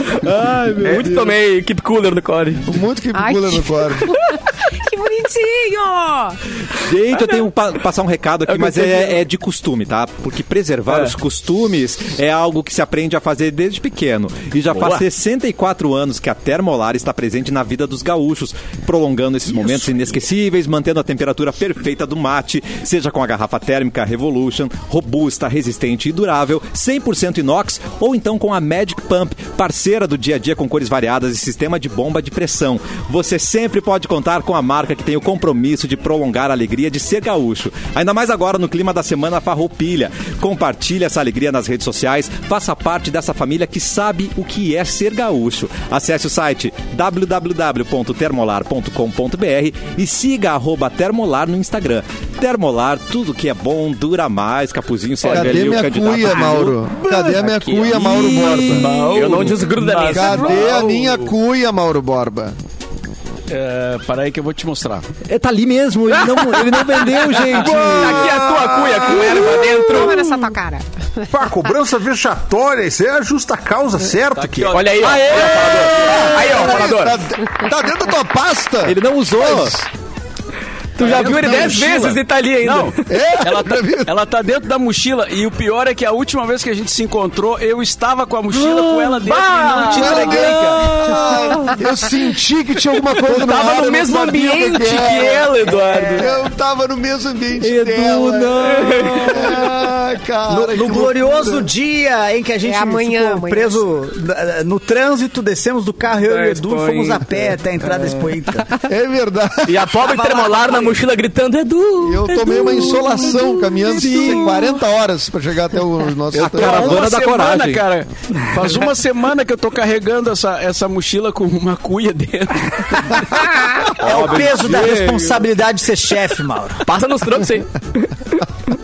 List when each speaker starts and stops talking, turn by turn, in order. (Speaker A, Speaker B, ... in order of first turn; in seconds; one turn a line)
Speaker A: 0.2-1.3
Speaker B: 0.8-1.3
Speaker C: 0.8-2.7
Speaker B: 2.7-4.1
Speaker D: 3.1-6.4
Speaker A: 6.8-59.5
Speaker C: 8.5-9.2
Speaker C: 10.9-11.2
Speaker C: 14.7-15.1
Speaker C: 55.2-55.8
Speaker B: 55.3-58.9
Speaker C: 57.1-57.9
Speaker E: 58.7-61.1
Speaker C: 58.8-60.9
Speaker B: 60.1-62.5
Speaker E: 63.5-65.1
Speaker A: 65.3-68.4
Speaker C: 66.1-70.3
Speaker F: 68.3-69.4
Speaker D: 69.4-71.2
Speaker F: 71.3-74.9
Speaker E: 74.3-76.5
Speaker C: 74.7-77.2
Speaker B: 75.9-79.9
Speaker A: 78.8-79.8
Speaker C: 81.0-83.0
Speaker E: 81.0-90.9
Speaker B: 81.1-81.8
Speaker B: 83.1-84.1
Speaker A: 88.5-89.4
Speaker C: 89.3-90.3
Speaker B: 89.9-101.7
Speaker A: 90.2-91.7
Speaker C: 93.2-96.3
Speaker A: 97.6-99.7
Speaker C: 98.7-99.5
Speaker G: 100.5-108.7
Speaker D: 102.6-103.8
Speaker C: 106.2-107.3
Speaker C: 107.8-108.2
Speaker B: 108.8-110.5
Speaker C: 109.7-114.3
Speaker B: 112.0-117.2
Speaker A: 113.9-114.8
Speaker E: 116.3-123.5
Speaker A: 116.3-117.9
Speaker G: 124.0-126.8
Speaker A: 124.0-125.5
Speaker C: 126.8-128.4